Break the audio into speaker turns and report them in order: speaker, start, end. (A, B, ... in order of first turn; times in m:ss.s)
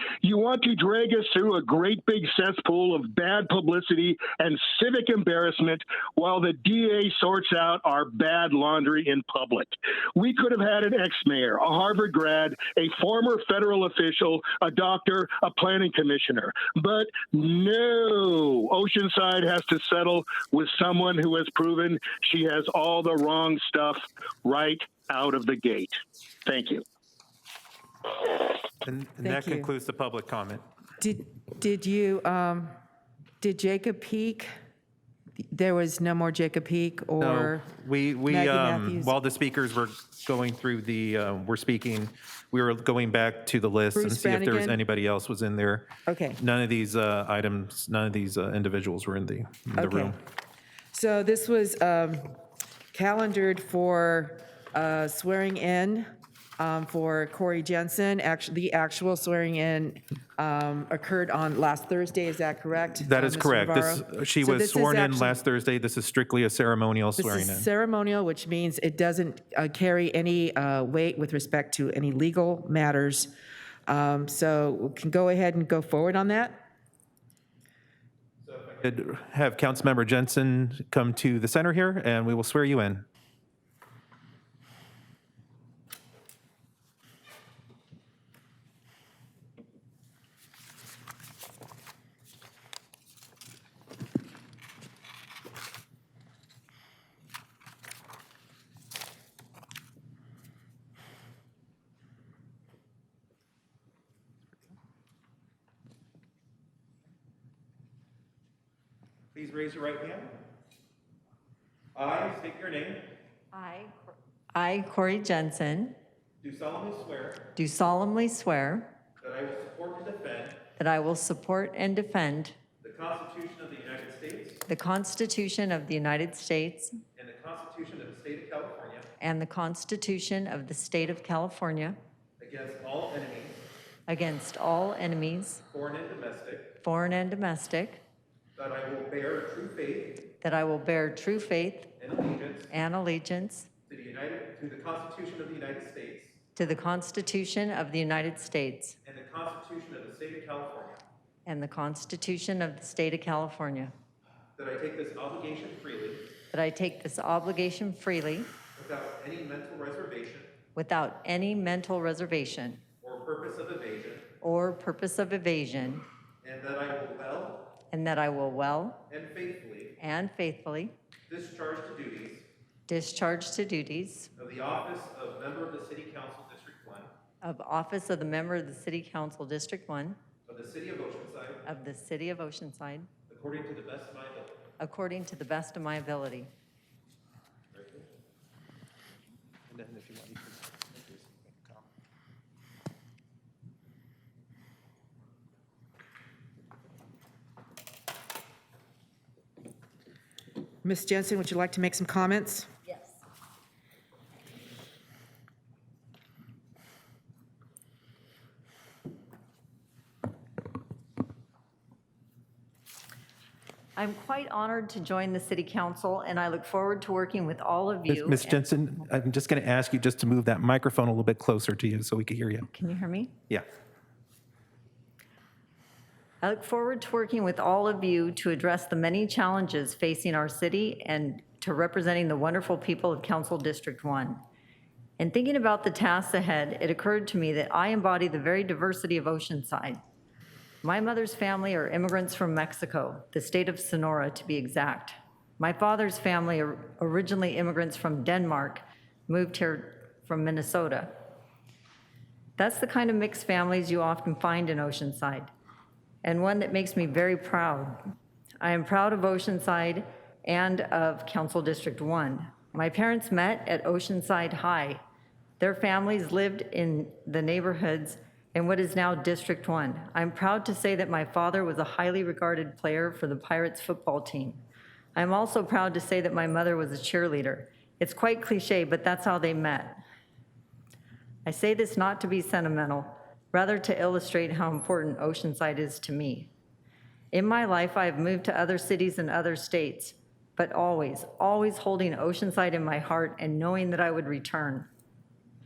0:00.2-0:26.8 A
0:28.8-0:30.6 B
0:29.2-0:29.7 C
0:31.0-0:32.8 C
0:33.4-0:34.5 C
0:35.4-0:37.7 C
0:37.2-0:50.2 B
0:38.3-0:39.1 C
0:43.9-0:44.8 C
0:46.1-0:46.4 C
0:49.8-0:50.2 C
0:50.9-0:52.4 C
0:52.9-1:05.4 C
1:03.0-1:07.7 B
1:07.2-1:13.3 C
1:13.9-1:16.6 C
1:18.4-1:23.1 B
1:49.3-1:50.4 B
1:52.0-1:53.1 B
1:53.5-1:56.0 D
1:56.4-1:57.5 B
1:57.6-1:59.0 D
1:59.2-2:00.6 B
2:00.8-2:02.6 D
2:02.8-2:04.6 B
2:04.7-2:07.0 D
2:07.2-2:09.1 B
2:09.2-2:12.0 D
2:12.4-2:13.6 B
2:14.1-2:15.6 D
2:15.7-2:16.7 B
2:16.8-2:18.0 D
2:18.6-2:20.3 B
2:20.4-2:22.0 D
2:22.0-2:22.7 B
2:22.7-2:23.7 D
2:23.9-2:26.4 B
2:26.6-2:29.0 D
2:29.0-2:31.0 B
2:31.5-2:33.9 D
2:34.6-2:36.3 B
2:36.5-2:38.6 D
2:38.8-2:40.5 B
2:40.8-2:42.8 D
2:43.0-2:44.3 B
2:44.4-2:46.0 D
2:46.4-2:47.8 B
2:47.9-2:49.1 D
2:49.1-2:50.0 B
2:50.0-2:51.0 D
2:51.3-2:52.5 B
2:52.9-2:54.3 D
2:54.4-2:57.1 B
2:57.4-3:00.2 D
3:00.5-3:01.6 B
3:01.6-3:03.1 D
3:03.3-3:04.6 B
3:04.8-3:06.5 D
3:07.7-3:08.1 B
3:09.7-3:11.9 B
3:20.8-3:22.7 C
3:34.0-3:38.6 D
3:38.1-3:42.7 B
3:42.7-3:43.4 D
3:46.4-3:54.4 D
3:55.2-4:00.0 D
4:00.8-4:11.2 D
4:12.6-4:15.5 D
4:16.2-4:18.0 D
4:18.6-4:25.0 D
4:25.6-4:34.6 D
4:35.2-4:40.0 D
4:41.5-4:46.5 D
4:47.3-4:54.9 D